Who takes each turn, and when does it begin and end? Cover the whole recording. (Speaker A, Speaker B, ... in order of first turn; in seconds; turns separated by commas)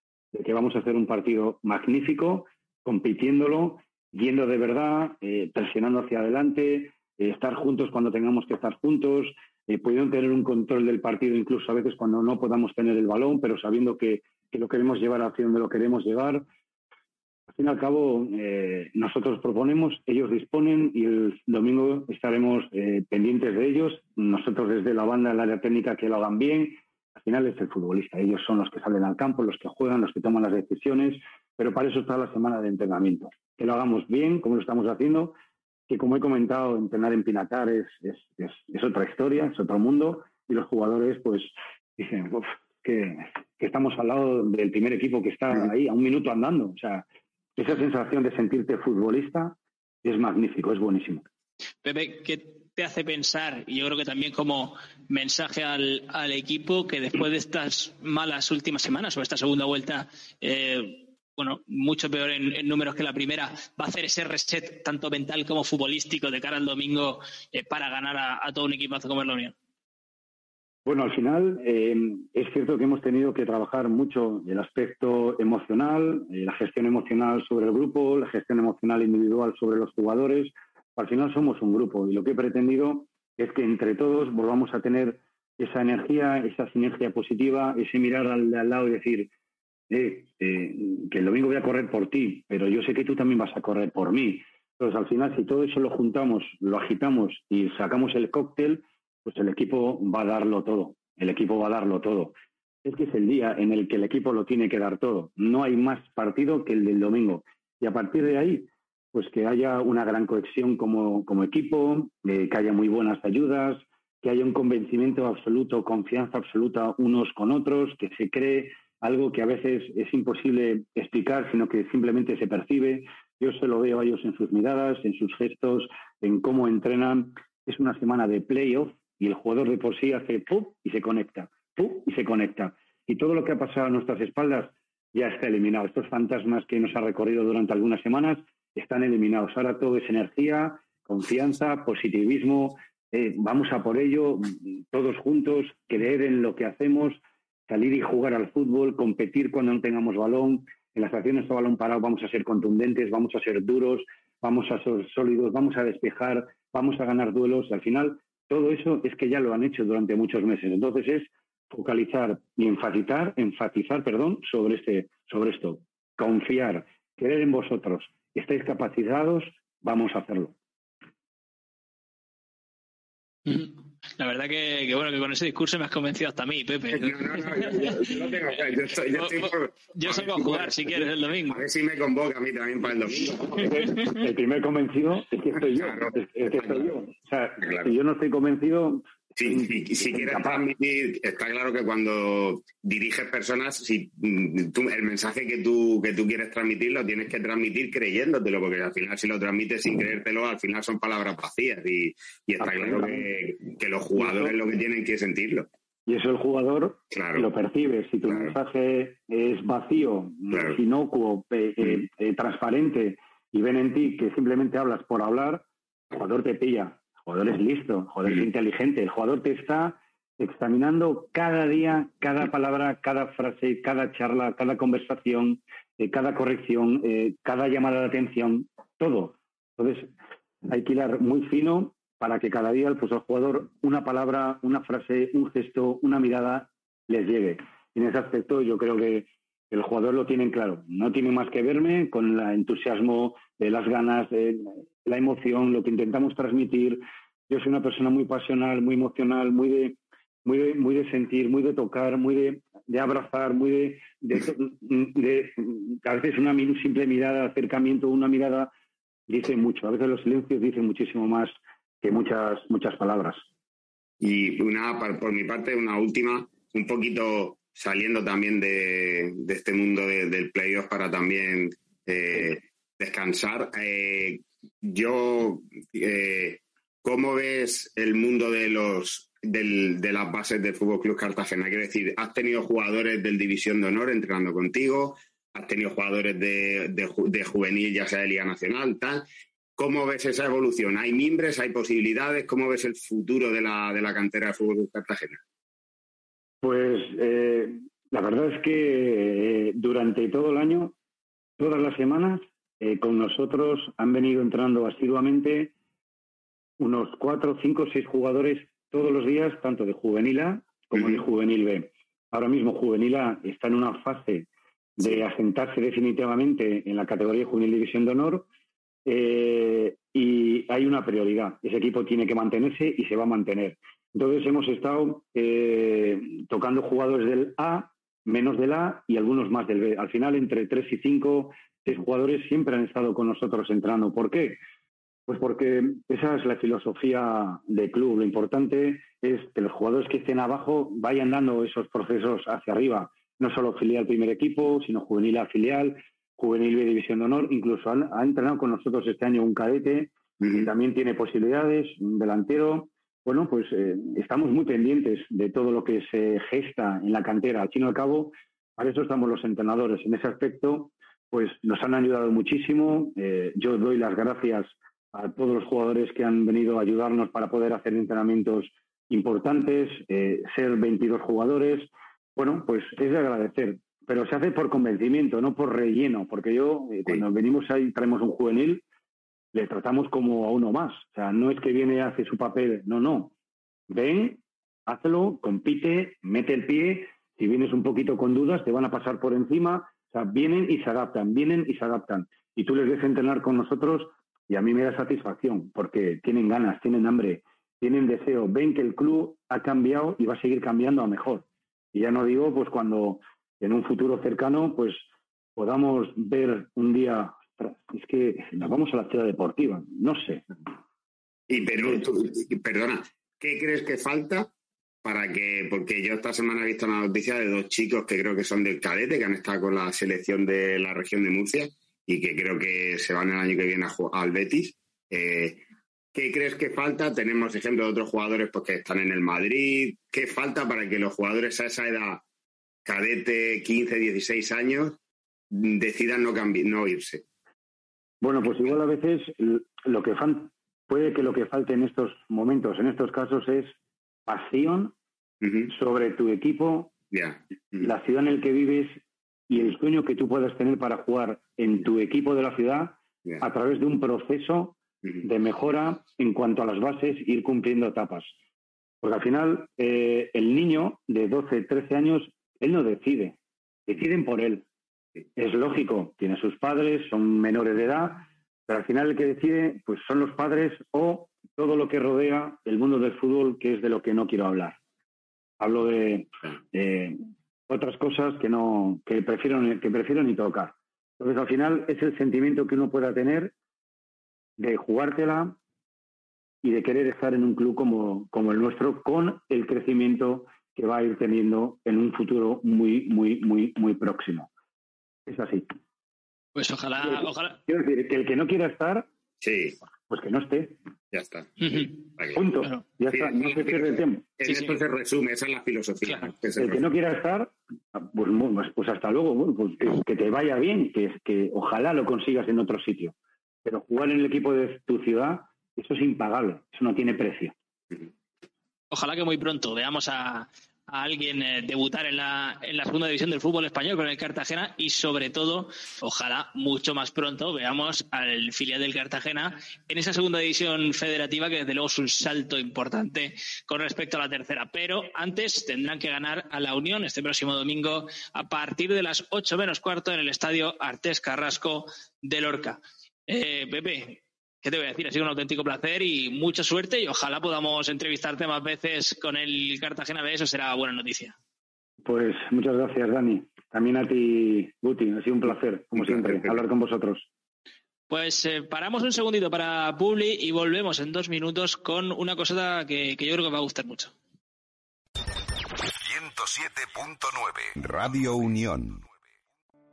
Speaker A: 0.3-16.4, Speaker A: 17.5-35.4, Speaker A: 35.9-47.0, Speaker A: 47.6-51.2, Speaker B: 51.8-69.5, Speaker A: 70.8-89.3, Speaker A: 89.9-170.5, Speaker B: 173.5-178.5, Speaker C: 176.9-183.7, Speaker B: 179.1-181.6, Speaker A: 183.4-190.7, Speaker C: 185.7-186.9, Speaker C: 187.6-187.9, Speaker C: 189.4-205.7, Speaker A: 202.6-203.3, Speaker A: 204.2-204.6, Speaker A: 206.1-230.1, Speaker C: 207.1-207.5, Speaker C: 208.3-208.5, Speaker C: 210.5-210.8, Speaker A: 230.7-258.7, Speaker A: 259.3-263.4, Speaker C: 264.2-289.2, Speaker C: 289.8-295.4, Speaker A: 296.6-300.9, Speaker A: 301.6-305.7, Speaker A: 306.8-318.5, Speaker A: 319.0-334.6, Speaker A: 335.3-378.8, Speaker C: 350.4-350.7, Speaker A: 379.5-383.3, Speaker A: 383.9-405.0, Speaker A: 405.6-410.4, Speaker C: 411.5-414.5, Speaker A: 411.7-412.0, Speaker C: 415.0-425.6, Speaker C: 426.1-432.2, Speaker C: 432.8-435.0, Speaker C: 435.5-437.2, Speaker A: 438.2-443.7, Speaker A: 444.2-444.9, Speaker C: 445.4-445.7, Speaker A: 445.7-446.9, Speaker C: 447.1-447.9, Speaker A: 447.8-458.3, Speaker A: 459.0-464.6, Speaker A: 465.4-474.8, Speaker A: 475.6-483.5, Speaker A: 484.6-485.6, Speaker A: 486.6-494.5, Speaker A: 495.2-495.7, Speaker B: 496.5-497.6, Speaker A: 497.0-499.1, Speaker C: 499.4-499.8, Speaker A: 500.1-500.8, Speaker C: 501.1-502.4, Speaker B: 501.6-502.0, Speaker A: 502.3-504.2, Speaker C: 503.1-506.8, Speaker B: 504.4-504.8, Speaker B: 506.0-506.3, Speaker A: 506.6-517.5, Speaker B: 518.9-551.4, Speaker A: 552.0-557.3, Speaker C: 556.0-556.5, Speaker B: 558.1-564.1, Speaker D: 565.9-569.1